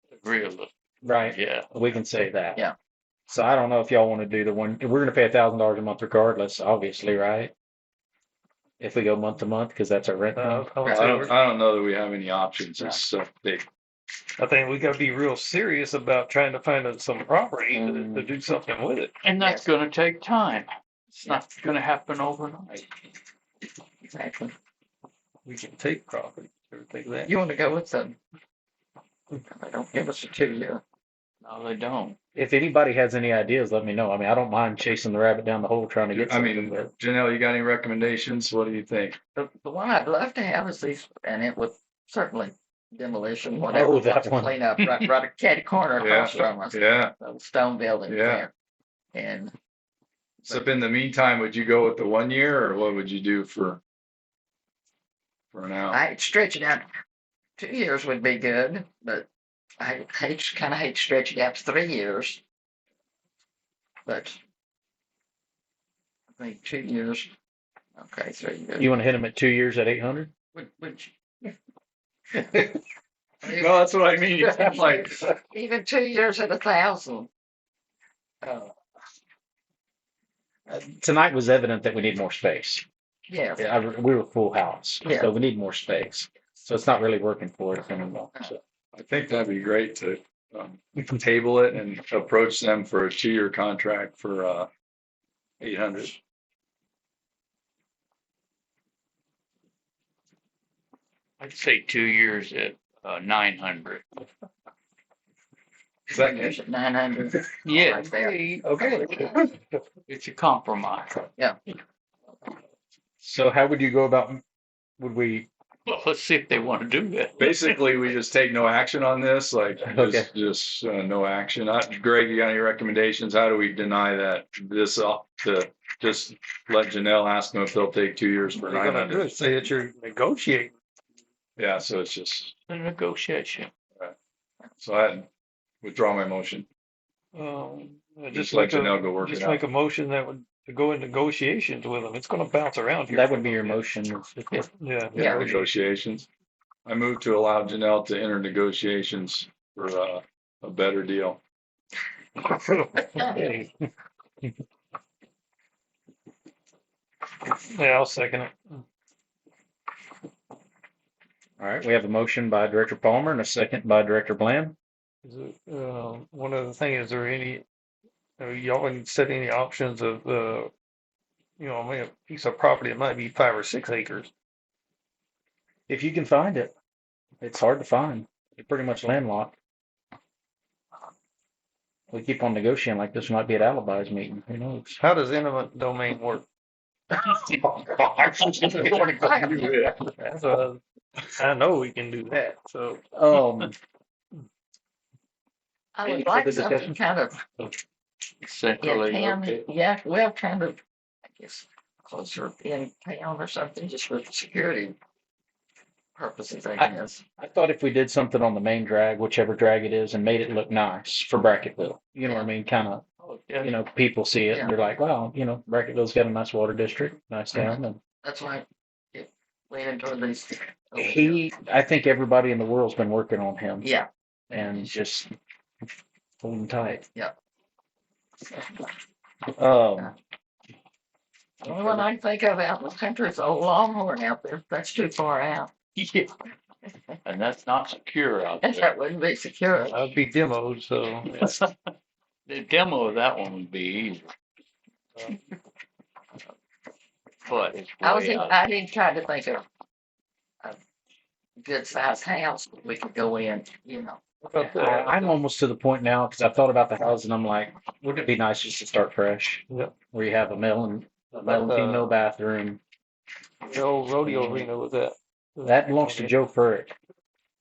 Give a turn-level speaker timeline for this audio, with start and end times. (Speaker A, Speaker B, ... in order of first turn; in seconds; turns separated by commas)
Speaker A: 0.2-0.7, Speaker B: 1.0-2.6, Speaker A: 1.3-1.7, Speaker B: 3.3-7.5, Speaker B: 8.8-10.7, Speaker C: 10.3-11.4, Speaker D: 10.9-11.2, Speaker E: 10.9-13.7, Speaker C: 14.4-19.1, Speaker B: 17.7-18.2, Speaker A: 19.2-22.9, Speaker D: 19.4-19.7, Speaker D: 24.0-24.5, Speaker C: 25.5-27.3, Speaker D: 27.2-28.2, Speaker D: 29.5-30.8, Speaker A: 31.4-32.2, Speaker B: 32.4-36.9, Speaker E: 36.1-39.2, Speaker D: 39.4-48.5, Speaker B: 43.7-44.6, Speaker E: 46.0-47.1, Speaker E: 48.1-48.5, Speaker D: 49.1-49.5, Speaker E: 50.5-53.8, Speaker E: 55.5-56.0, Speaker D: 55.9-56.9, Speaker D: 57.6-59.3, Speaker D: 59.8-62.4, Speaker D: 64.1-64.4, Speaker D: 66.4-67.3, Speaker D: 68.0-68.9, Speaker B: 68.8-70.3, Speaker D: 70.5-71.5, Speaker D: 73.4-73.8, Speaker E: 73.4-75.3, Speaker D: 74.4-77.3, Speaker D: 78.4-78.7, Speaker B: 80.7-82.8, Speaker D: 83.3-83.7, Speaker B: 83.6-88.6, Speaker D: 85.0-85.3, Speaker E: 88.9-94.7, Speaker E: 95.6-96.2, Speaker A: 101.4-104.0, Speaker D: 106.1-109.4, Speaker E: 106.1-106.6, Speaker A: 107.7-108.7, Speaker B: 108.6-109.2, Speaker A: 110.1-111.3, Speaker B: 113.2-114.4, Speaker B: 115.0-115.5, Speaker A: 115.9-117.8, Speaker E: 117.4-129.3, Speaker B: 119.8-120.3, Speaker C: 128.6-130.7, Speaker E: 131.6-132.5, Speaker A: 132.7-133.7, Speaker E: 134.8-135.3, Speaker E: 135.8-136.7, Speaker C: 137.3-143.9, Speaker E: 138.3-139.6, Speaker B: 143.1-144.7, Speaker C: 144.8-145.7, Speaker E: 145.1-146.3, Speaker D: 145.2-145.4, Speaker E: 146.9-151.4, Speaker B: 153.1-153.7, Speaker C: 157.6-158.8, Speaker B: 161.6-164.8, Speaker C: 165.2-167.6, Speaker C: 168.4-170.7, Speaker C: 171.6-174.3, Speaker B: 175.9-176.7, Speaker B: 177.4-179.6, Speaker B: 182.1-185.0, Speaker C: 185.0-186.4, Speaker B: 187.3-189.7, Speaker A: 188.4-190.0, Speaker D: 189.2-190.0, Speaker C: 190.1-193.0, Speaker B: 193.1-193.8, Speaker D: 195.9-197.4, Speaker B: 196.1-197.0, Speaker A: 198.4-199.7, Speaker D: 198.8-200.8, Speaker D: 201.3-205.0, Speaker D: 206.2-207.2, Speaker B: 206.8-213.0, Speaker D: 212.2-212.5, Speaker A: 213.2-213.7, Speaker B: 213.6-218.0, Speaker D: 218.2-221.5, Speaker B: 221.0-223.9, Speaker D: 223.8-224.1, Speaker B: 224.5-225.3, Speaker B: 226.4-227.1, Speaker D: 228.5-228.9, Speaker B: 229.6-230.1, Speaker D: 231.6-235.7, Speaker B: 231.7-232.0, Speaker A: 236.0-236.3, Speaker A: 237.2-238.9, Speaker D: 238.6-240.0, Speaker C: 239.9-241.6, Speaker A: 241.4-241.7, Speaker A: 242.5-244.3, Speaker A: 247.4-248.6, Speaker D: 248.0-249.6, Speaker D: 251.6-254.2, Speaker C: 254.4-255.4, Speaker B: 254.6-262.8, Speaker C: 261.4-262.1, Speaker C: 263.7-266.3, Speaker B: 264.2-264.7, Speaker B: 265.6-266.9